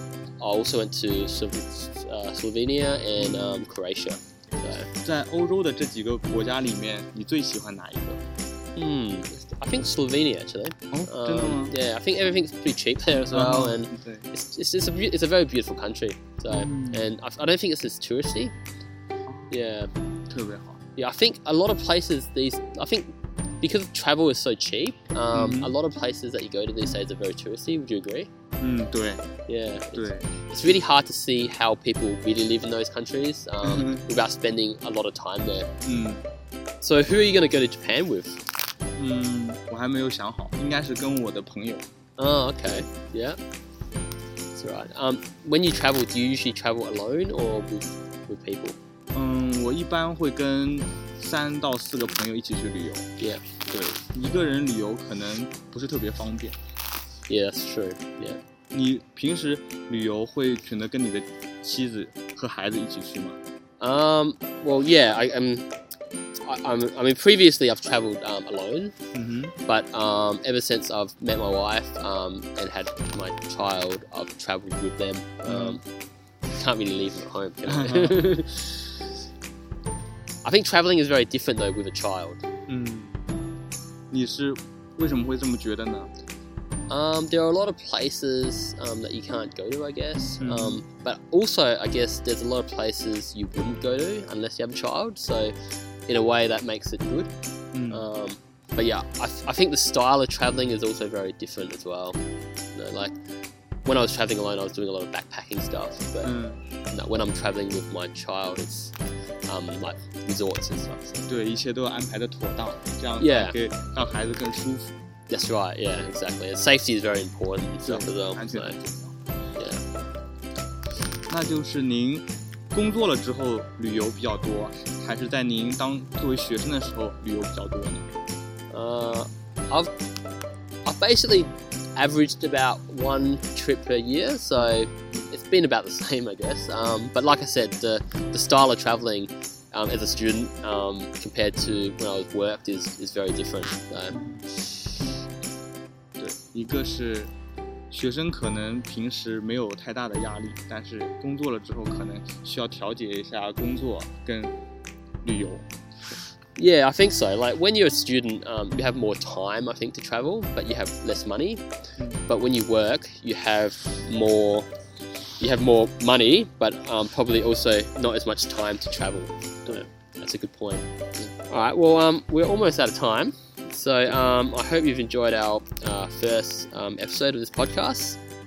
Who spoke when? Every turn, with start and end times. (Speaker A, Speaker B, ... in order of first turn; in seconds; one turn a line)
Speaker A: 0.4-4.9
Speaker B: 3.2-3.6
Speaker B: 5.0-8.2
Speaker A: 8.8-18.5
Speaker B: 10.9-11.7
Speaker B: 13.3-14.3
Speaker B: 16.5-17.1
Speaker B: 19.2-19.5
Speaker A: 19.5-19.9
Speaker B: 20.3-20.8
Speaker A: 20.9-28.3
Speaker B: 25.3-25.7
Speaker B: 28.6-29.3
Speaker A: 29.5-35.7
Speaker B: 29.9-30.3
Speaker B: 33.6-34.0
Speaker B: 35.8-36.2
Speaker A: 36.8-38.4
Speaker B: 38.9-41.9
Speaker A: 42.2-43.4
Speaker A: 44.5-48.8
Speaker B: 49.1-53.1
Speaker B: 53.7-56.6
Speaker A: 57.3-58.4
Speaker B: 58.7-63.4
Speaker A: 63.8-65.7
Speaker A: 66.4-68.9
Speaker B: 69.1-69.5
Speaker A: 69.7-75.8
Speaker B: 75.4-75.8
Speaker A: 76.5-79.0
Speaker B: 77.7-78.3
Speaker A: 80.4-82.4
Speaker B: 82.7-83.2
Speaker B: 84.1-86.1
Speaker A: 86.9-95.5
Speaker B: 90.4-90.8
Speaker A: 96.1-97.3
Speaker B: 97.7-98.0
Speaker A: 97.9-102.2
Speaker A: 102.7-103.1
Speaker A: 103.8-106.3
Speaker B: 106.2-106.6
Speaker A: 106.9-108.9
Speaker A: 109.5-111.3
Speaker B: 111.3-114.9
Speaker A: 113.2-113.6
Speaker A: 115.3-118.8
Speaker B: 117.8-119.2
Speaker A: 119.5-119.8
Speaker B: 121.3-128.1
Speaker A: 128.7-129.9
Speaker A: 130.8-144.2
Speaker B: 144.1-144.4
Speaker B: 146.2-147.3
Speaker B: 147.9-154.5
Speaker B: 155.2-155.7
Speaker A: 156.6-161.6
Speaker A: 162.3-164.7
Speaker A: 165.4-178.2